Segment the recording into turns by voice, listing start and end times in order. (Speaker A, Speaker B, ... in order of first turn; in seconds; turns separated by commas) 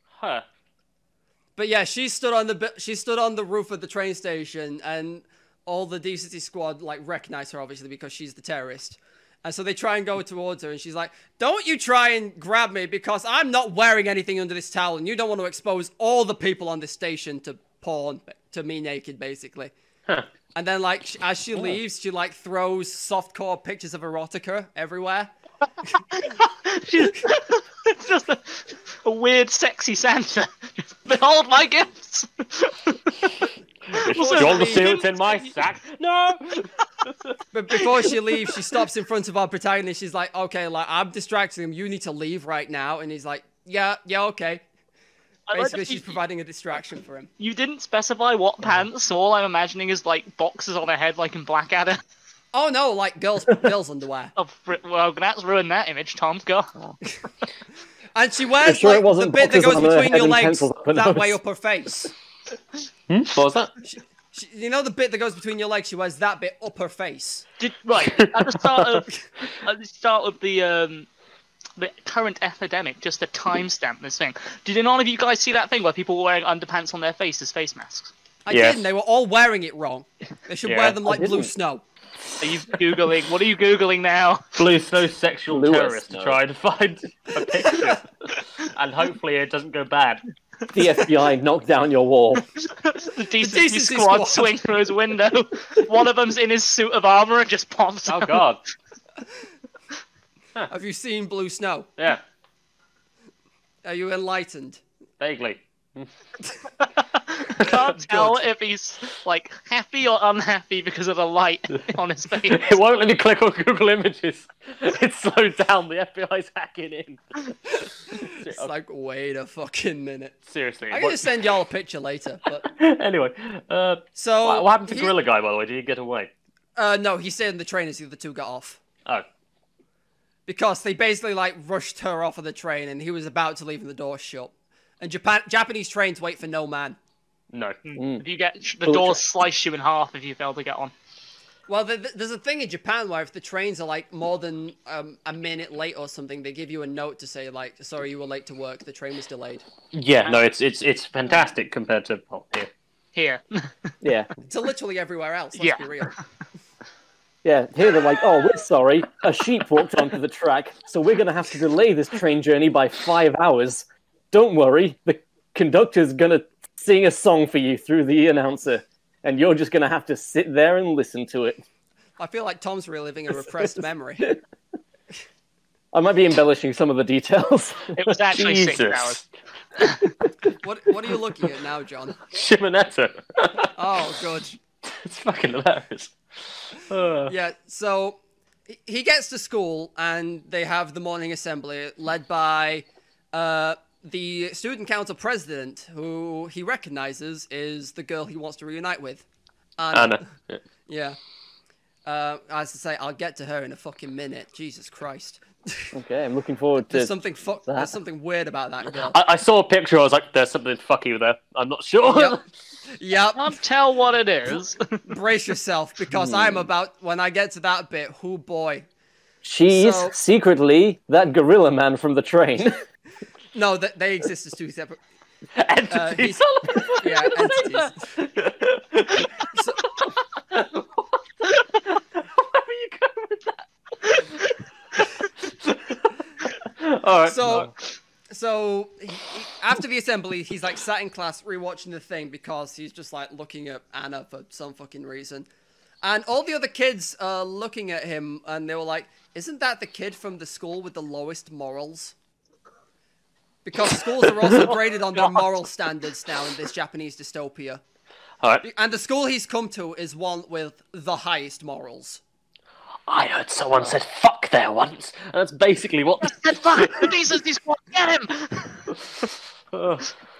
Speaker A: 0.2-0.4, Speaker B: 1.6-19.7, Speaker B: 20.5-25.3, Speaker C: 26.1-35.5, Speaker A: 33.9-36.7, Speaker B: 34.1-35.0, Speaker B: 37.5-44.6, Speaker C: 45.5-46.1, Speaker B: 45.5-47.3, Speaker C: 47.4-52.0, Speaker B: 52.5-54.3, Speaker C: 54.4-56.7, Speaker B: 58.1-62.1, Speaker D: 58.6-61.4, Speaker A: 63.1-63.7, Speaker B: 63.9-67.4, Speaker C: 67.6-71.1, Speaker A: 68.0-69.0, Speaker C: 71.8-78.1, Speaker B: 78.4-81.8, Speaker A: 78.5-78.8, Speaker A: 80.6-81.0, Speaker D: 81.0-81.5, Speaker C: 82.4-84.6, Speaker A: 84.5-88.1, Speaker D: 85.5-86.3, Speaker A: 88.6-90.2, Speaker D: 90.7-92.4, Speaker C: 92.4-98.5, Speaker B: 93.4-94.6, Speaker A: 98.1-98.6, Speaker B: 100.7-101.9, Speaker B: 103.8-104.8, Speaker A: 105.2-106.1, Speaker C: 107.0-112.7, Speaker A: 107.5-108.4, Speaker A: 112.5-117.5, Speaker B: 118.1-120.3, Speaker A: 118.2-118.7, Speaker A: 120.5-121.3, Speaker B: 120.9-122.6, Speaker A: 122.7-126.3, Speaker B: 124.1-125.1, Speaker B: 126.8-128.8, Speaker B: 130.5-137.0, Speaker A: 137.5-137.8, Speaker C: 137.8-140.9, Speaker D: 138.0-138.2, Speaker D: 138.8-139.2, Speaker B: 141.7-149.6, Speaker A: 149.9-152.7, Speaker C: 153.1-153.7, Speaker D: 154.0-154.3, Speaker B: 154.4-156.1, Speaker C: 155.6-156.2, Speaker D: 157.4-171.6, Speaker B: 172.2-174.3, Speaker D: 175.9-178.2, Speaker C: 177.9-179.2, Speaker A: 178.3-179.2, Speaker C: 179.8-180.1, Speaker B: 180.6-182.2, Speaker A: 182.3-183.7, Speaker B: 183.7-184.6, Speaker A: 184.8-186.2, Speaker A: 186.7-187.3, Speaker B: 187.2-199.2, Speaker B: 199.8-200.2, Speaker A: 199.9-200.6, Speaker B: 200.9-201.2, Speaker B: 202.1-205.9, Speaker D: 205.9-207.1, Speaker B: 206.9-209.1, Speaker A: 208.8-212.4, Speaker B: 212.1-212.3, Speaker B: 213.0-213.6, Speaker C: 213.3-215.0, Speaker B: 215.1-218.9, Speaker D: 216.1-216.7, Speaker D: 219.4-222.8, Speaker B: 219.7-220.1, Speaker B: 223.5-225.0, Speaker A: 225.6-231.4, Speaker B: 225.9-228.1, Speaker B: 229.5-229.9, Speaker A: 232.2-234.2, Speaker A: 235.6-237.7, Speaker B: 237.2-237.7, Speaker B: 238.3-245.5, Speaker B: 246.0-252.1, Speaker B: 253.6-257.8, Speaker A: 254.6-255.4, Speaker B: 258.6-262.2, Speaker A: 263.1-267.3, Speaker C: 266.2-269.0, Speaker A: 269.7-270.1